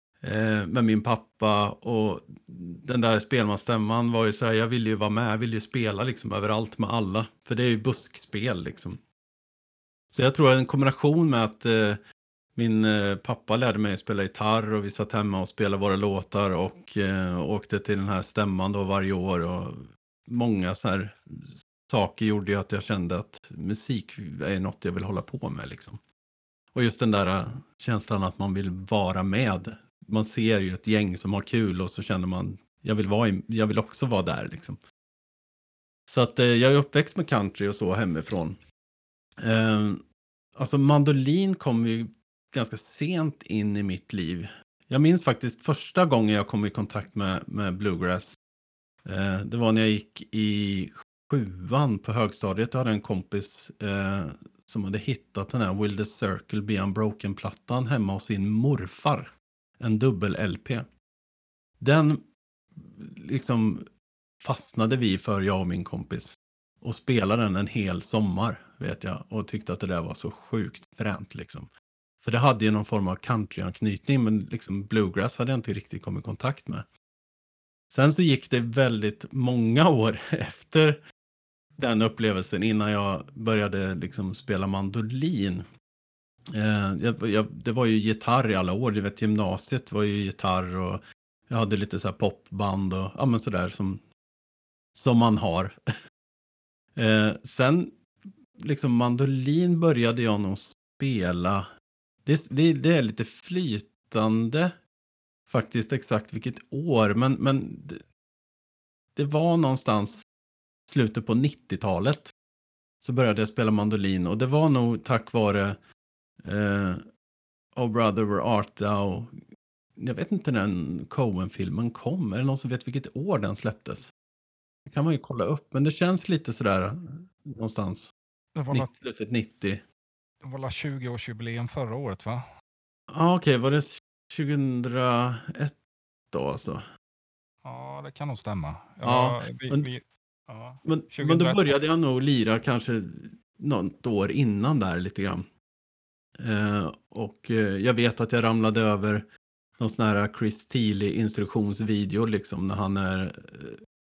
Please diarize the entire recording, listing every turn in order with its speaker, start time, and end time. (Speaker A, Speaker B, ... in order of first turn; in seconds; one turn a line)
Speaker A: 0.2-9.0
Speaker A: 10.1-12.0
Speaker A: 12.6-26.0
Speaker A: 26.7-34.8
Speaker A: 36.1-38.6
Speaker A: 39.4-40.0
Speaker A: 40.5-48.4
Speaker A: 49.0-60.9
Speaker A: 61.8-62.2
Speaker A: 62.8-63.9
Speaker A: 64.4-71.7
Speaker A: 72.2-76.8
Speaker A: 77.9-81.0
Speaker A: 81.8-85.7
Speaker A: 86.5-94.0
Speaker A: 94.9-95.8
Speaker A: 97.0-97.9
Speaker A: 98.6-101.7
Speaker A: 102.2-104.8
Speaker A: 105.5-108.0
Speaker A: 109.1-110.2
Speaker A: 110.9-112.3
Speaker A: 113.0-115.8
Speaker A: 116.4-117.0
Speaker A: 117.7-119.4
Speaker A: 120.0-124.1
Speaker A: 124.9-128.1
Speaker B: 128.5-128.9
Speaker A: 128.7-129.8
Speaker B: 130.4-132.4
Speaker A: 133.1-135.8
Speaker A: 136.3-136.8
Speaker B: 137.6-141.7
Speaker A: 139.0-139.9
Speaker A: 140.8-145.5
Speaker A: 146.4-149.3
Speaker A: 149.8-153.8